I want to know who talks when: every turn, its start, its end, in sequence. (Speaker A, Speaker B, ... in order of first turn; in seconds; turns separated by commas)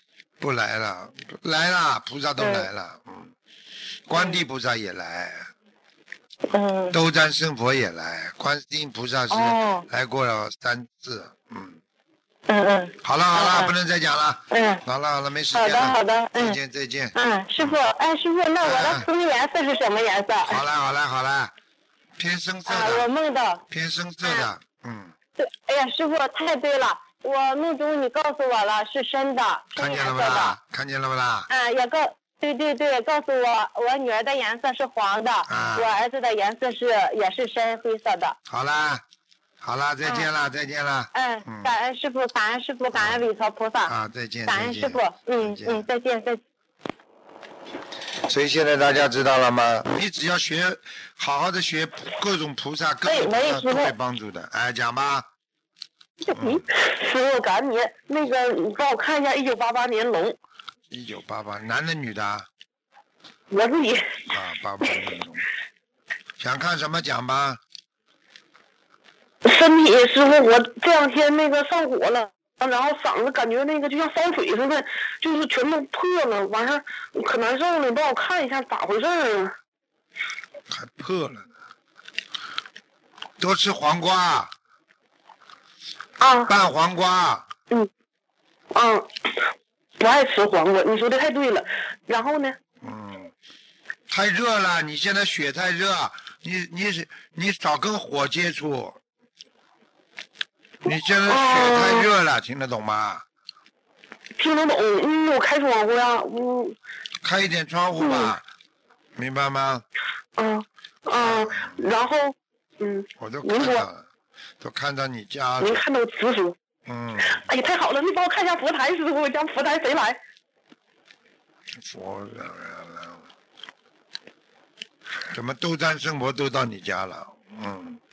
Speaker A: 0.4-3.3, Speaker B: 2.4-2.7, Speaker A: 4.1-5.5, Speaker B: 6.5-7.0, Speaker A: 6.9-11.8, Speaker B: 9.3-9.8, Speaker B: 12.5-13.7, Speaker A: 13.0-17.8, Speaker B: 14.5-14.8, Speaker B: 15.5-16.6, Speaker B: 17.1-20.6, Speaker A: 18.6-19.1, Speaker A: 20.4-21.5, Speaker A: 22.2-23.1, Speaker B: 22.6-23.6, Speaker A: 23.7-25.1, Speaker B: 25.4-30.6, Speaker A: 29.8-31.5, Speaker B: 31.5-38.4, Speaker A: 35.5-35.9, Speaker A: 38.5-39.0, Speaker A: 39.6-41.7, Speaker B: 41.1-43.9, Speaker A: 42.9-43.2, Speaker A: 43.9-45.9, Speaker B: 44.5-46.4, Speaker A: 48.2-55.3, Speaker C: 53.0-53.9, Speaker C: 56.2-60.4, Speaker A: 56.3-56.6, Speaker A: 60.9-62.5, Speaker C: 63.5-64.3, Speaker A: 64.3-65.5, Speaker A: 66.4-67.6, Speaker C: 69.4-79.5, Speaker A: 80.7-81.5, Speaker A: 83.4-84.5, Speaker C: 86.2-86.5, Speaker A: 86.5-87.5, Speaker C: 88.7-89.4, Speaker C: 90.0-92.6, Speaker A: 92.8-93.3, Speaker A: 94.1-99.0, Speaker A: 100.8-103.2, Speaker C: 100.9-102.1, Speaker C: 104.4-106.7, Speaker A: 107.2-108.4, Speaker C: 108.0-108.3, Speaker A: 109.2-109.8, Speaker C: 110.4-113.8, Speaker A: 111.2-111.8, Speaker A: 113.2-114.0, Speaker A: 114.6-115.8, Speaker C: 115.6-116.5, Speaker A: 116.8-117.5, Speaker C: 117.3-120.2, Speaker A: 121.8-123.2, Speaker A: 125.3-128.0